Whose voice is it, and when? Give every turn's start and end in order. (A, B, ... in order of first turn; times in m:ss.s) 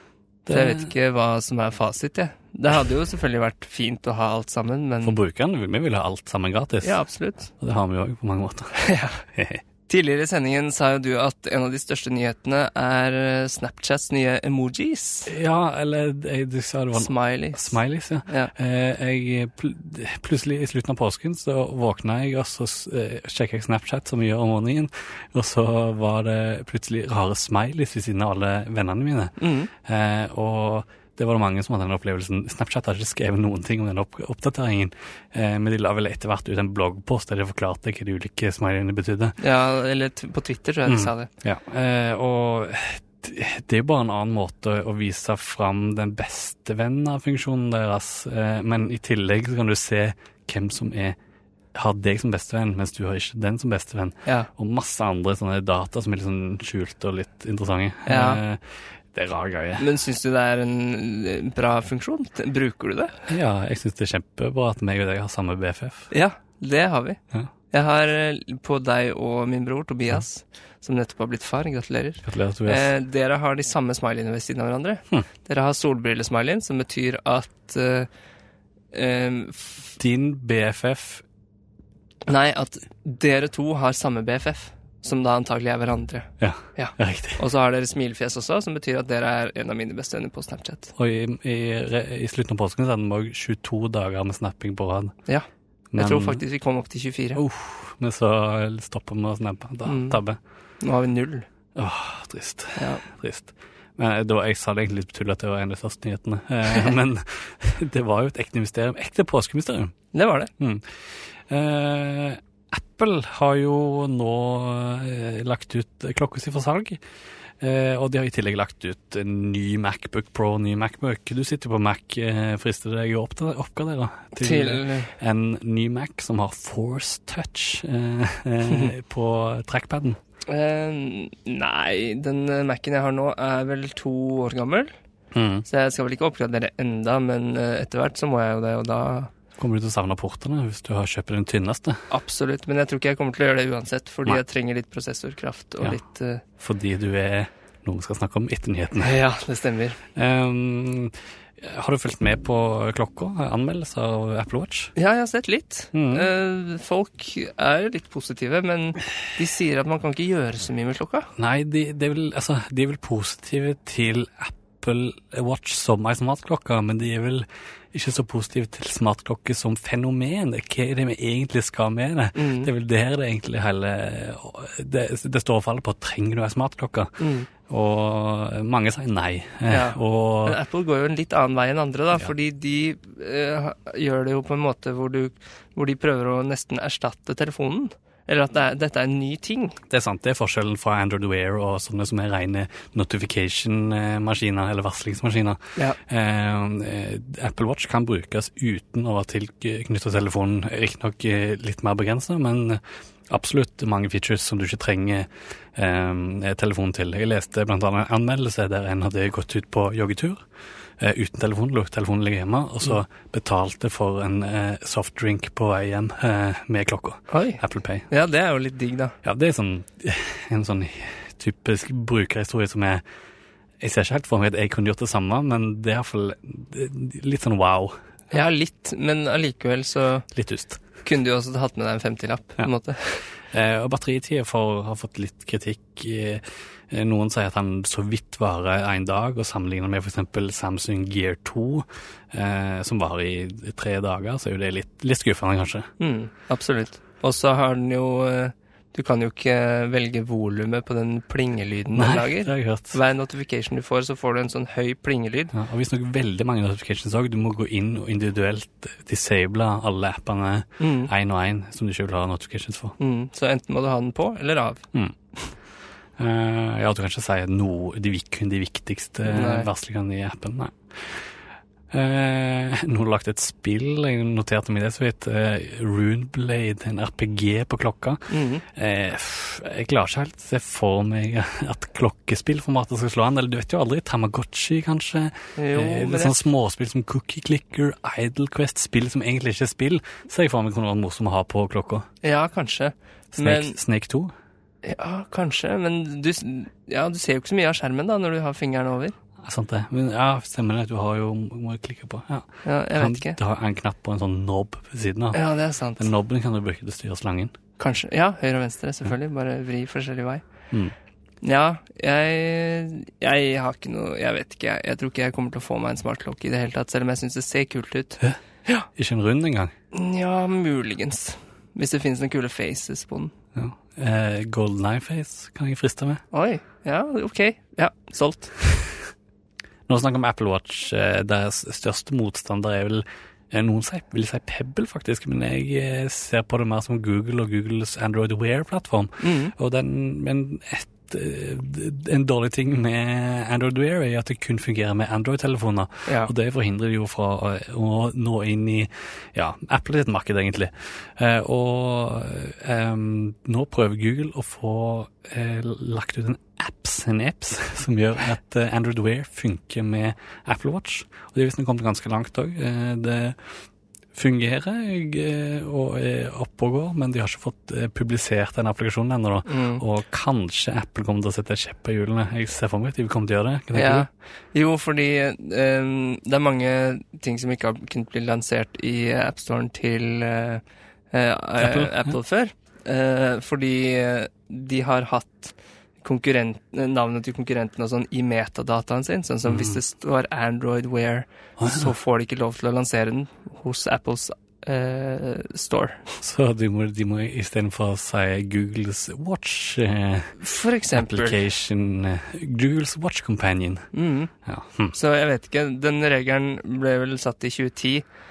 0:00.5-0:00.9 A
0:00.5-0:05.2 B
0:05.0-0:07.0 A
0:06.8-0:07.5 B
0:07.6-0:08.7 A
0:08.7-0:09.2 B
0:09.3-0:09.6 A
0:09.9-0:15.3 B
0:15.3-0:39.4 A
0:17.0-0:18.5 B
0:29.4-0:29.7 B
0:39.4-0:41.3 B
0:40.9-0:51.2 A
0:51.7-0:59.8 A
0:58.1-0:58.4 B
0:59.8-1:03.3 B
1:03.3-1:06.1 A
1:06.1-1:07.2 B
1:07.7-1:18.1 B
1:12.2-1:12.9 A
1:18.9-1:20.0 B
1:20.0-1:21.2 A
1:22.2-1:30.9 B
1:26.4-1:27.4 A
1:31.0-1:35.2 A
1:35.3-1:37.4 B
1:35.9-1:36.4 A
1:37.4-1:40.4 A
1:39.9-1:40.2 B
1:40.8-1:41.5 B
1:41.8-1:50.0 A
1:42.8-1:43.0 B
1:50.1-1:50.5 B
1:50.6-1:50.9 A
1:51.5-1:57.0 A
1:57.6-2:10.2 A
2:04.4-2:05.1 B
2:08.7-2:08.9 B
2:10.5-2:14.9 B
2:15.3-2:15.7 A
2:15.7-2:19.3 B
2:19.6-2:22.1 A
2:22.1-2:26.4 B
2:26.6-2:29.2 A
2:29.0-2:30.0 B
2:30.2-2:34.9 A
2:35.0-2:41.3 B
2:35.9-2:36.3 A
2:41.4-3:00.6 A
2:52.4-2:52.7 B
2:57.2-2:57.5 B
2:59.7-3:09.8 B
3:09.9-3:30.4 A
3:31.0-3:38.1 A
3:37.3-3:39.2 B
3:39.2-3:43.0 A
3:43.8-3:48.0 A
3:48.3-3:50.3 B
3:50.3-3:50.8 A
3:51.0-3:53.2 B
3:53.5-4:05.9 A
4:06.0-4:15.5 B
4:12.0-4:13.0 A
4:15.5-4:23.0 A
4:20.8-4:21.1 B
4:23.0-4:24.8 B
4:26.2-4:31.3 A
4:29.3-4:29.7 B
4:31.9-4:52.1 A
4:38.3-4:38.6 B
4:45.6-4:46.4 B
4:52.2-4:53.8 B
4:53.3-4:54.3 A
4:54.8-4:59.1 B
4:59.4-5:05.4 A
5:02.6-5:03.4 B
5:05.3-5:06.1 B
5:06.0-5:07.6 A
5:07.8-5:10.4 B
5:11.4-5:18.9 B
5:19.0-5:19.7 A
5:19.9-5:23.3 B
5:23.5-5:26.2 A
5:26.3-5:28.6 B
5:29.9-6:03.5 A
5:39.2-5:39.5 B
5:46.1-5:46.3 B
6:04.1-6:14.1 A
6:09.5-6:09.8 B
6:13.7-6:36.1 B
6:21.6-6:22.1 A
6:29.5-6:29.8 A
6:31.6-6:31.9 A
6:36.2-6:40.4 A
6:40.4-6:41.4 B
6:41.0-6:43.9 A
6:43.9-6:44.3 B
6:44.5-6:45.0 A
6:44.9-6:48.0 B